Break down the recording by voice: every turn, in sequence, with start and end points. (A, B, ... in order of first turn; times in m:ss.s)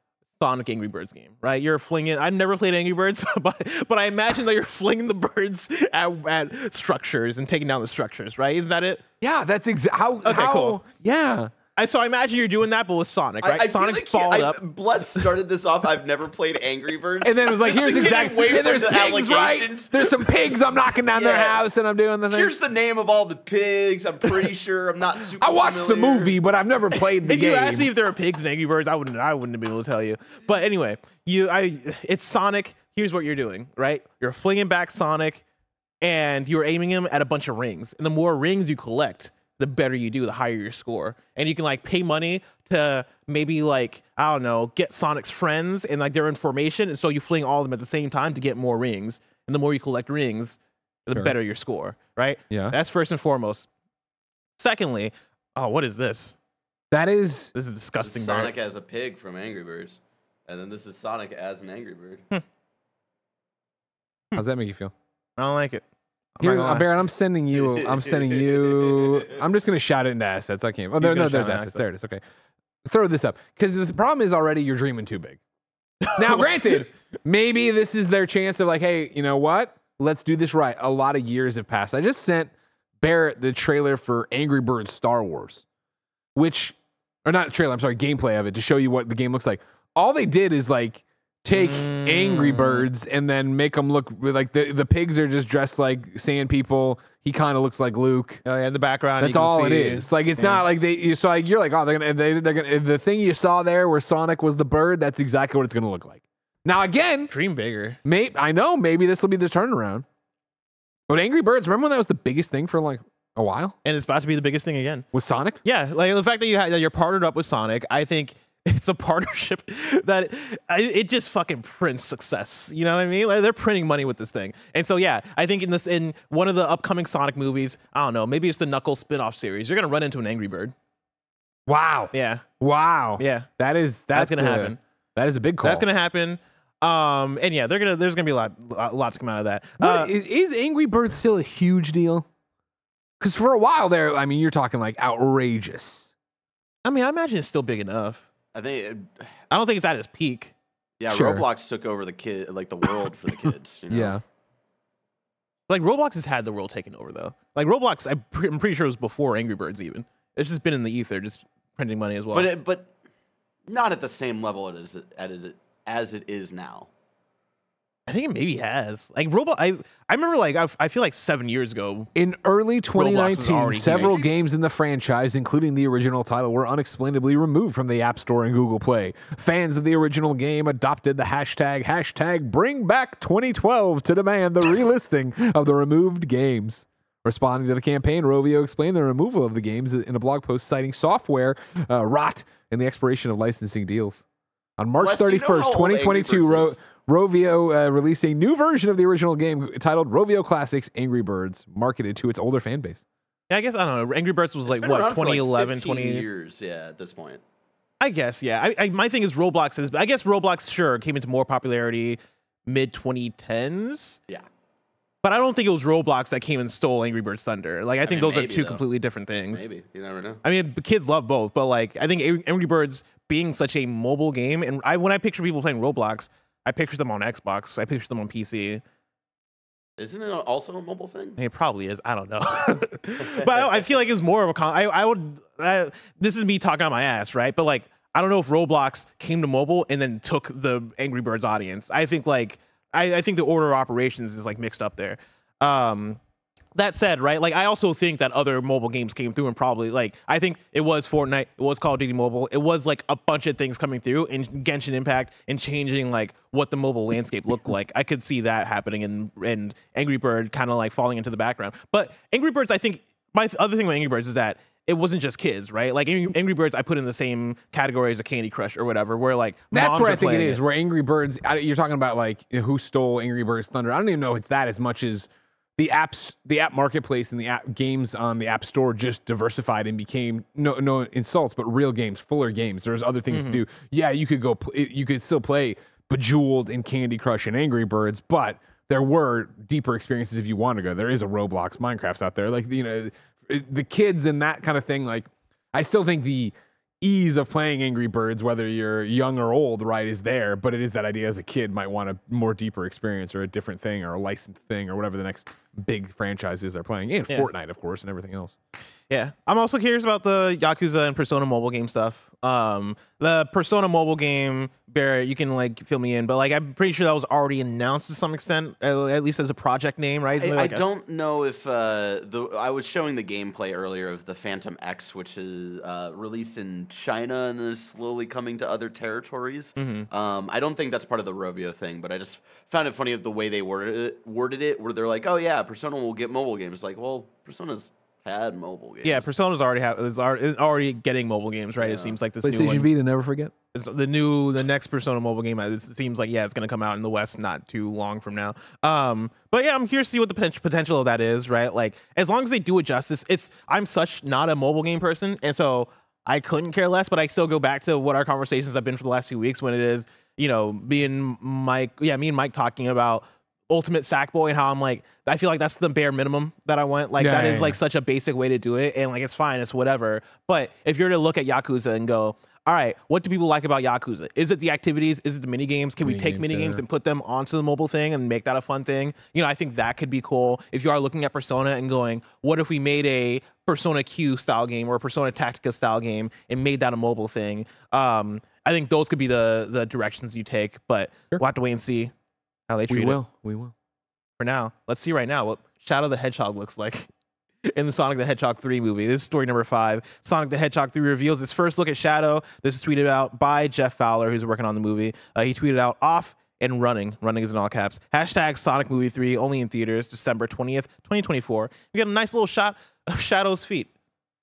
0:00.4-0:09.0 A
0:09.2-0:11.5 B
0:10.2-0:10.8 A
0:11.8-0:14.6 A
0:13.4-0:20.3 C
0:17.2-0:22.5 B
0:21.1-0:21.6 C
0:22.3-0:26.4 C
0:25.4-0:27.9 B
0:27.2-0:35.4 A
0:36.0-0:53.7 A
0:52.5-0:52.8 B
0:54.6-0:56.4 A
0:56.9-0:57.5 B
0:57.5-0:58.5 A
0:58.0-1:02.2 C
1:04.3-1:04.9 B
1:05.4-1:05.8 A
1:06.4-1:06.9 A
1:06.4-1:12.2 B
1:07.6-1:08.9 C
1:11.0-1:11.9 A
1:12.8-1:15.4 B
1:16.0-1:16.6 A
1:16.1-1:25.6 B
1:26.3-1:38.4 B
1:31.5-1:32.9 A
1:38.4-1:40.6 A
1:39.2-1:47.3 B
1:47.3-1:48.0 A
1:48.0-1:50.0 B
1:51.1-1:53.8 B
1:53.8-1:55.0 A
1:55.1-1:55.6 B
1:55.6-2:10.7 A
2:11.7-2:15.8 B
2:12.1-2:12.4 A
2:13.2-2:13.5 A
2:14.1-2:14.8 A
2:15.6-2:20.1 A
2:19.8-2:22.2 B
2:23.2-2:26.1 B
2:26.8-2:28.2 A
2:28.5-2:29.3 C
2:29.5-2:30.5 A
2:31.0-2:34.2 C
2:31.1-2:31.4 B
2:33.9-2:34.2 B
2:35.7-2:42.5 A
2:42.3-2:42.9 C
2:43.7-2:46.9 C
2:48.1-2:52.1 A
2:52.2-3:14.2 B
2:52.9-2:54.2 A
3:14.8-3:23.0 B
3:15.0-3:16.8 C
3:23.5-3:26.2 A
3:24.6-3:27.4 C
3:28.0-3:34.2 A
3:35.2-3:39.6 A
3:38.0-3:38.8 C
3:39.5-3:40.4 C
3:40.4-3:48.8 A
3:50.0-3:51.4 C
3:51.4-4:06.2 A
4:06.7-4:30.6 A
4:29.7-5:08.6 B
4:43.3-4:43.6 A
5:09.1-5:20.8 A
5:20.4-5:39.3 C
5:29.8-5:30.1 A
5:39.0-5:42.9 A
5:41.8-5:42.2 C
5:42.4-5:43.5 B
5:43.7-6:32.1 A
6:07.2-6:07.8 B
6:16.0-6:16.8 B
6:32.7-6:33.2 A
6:32.9-6:33.7 B
6:34.4-6:37.1 A
6:37.6-6:53.9 A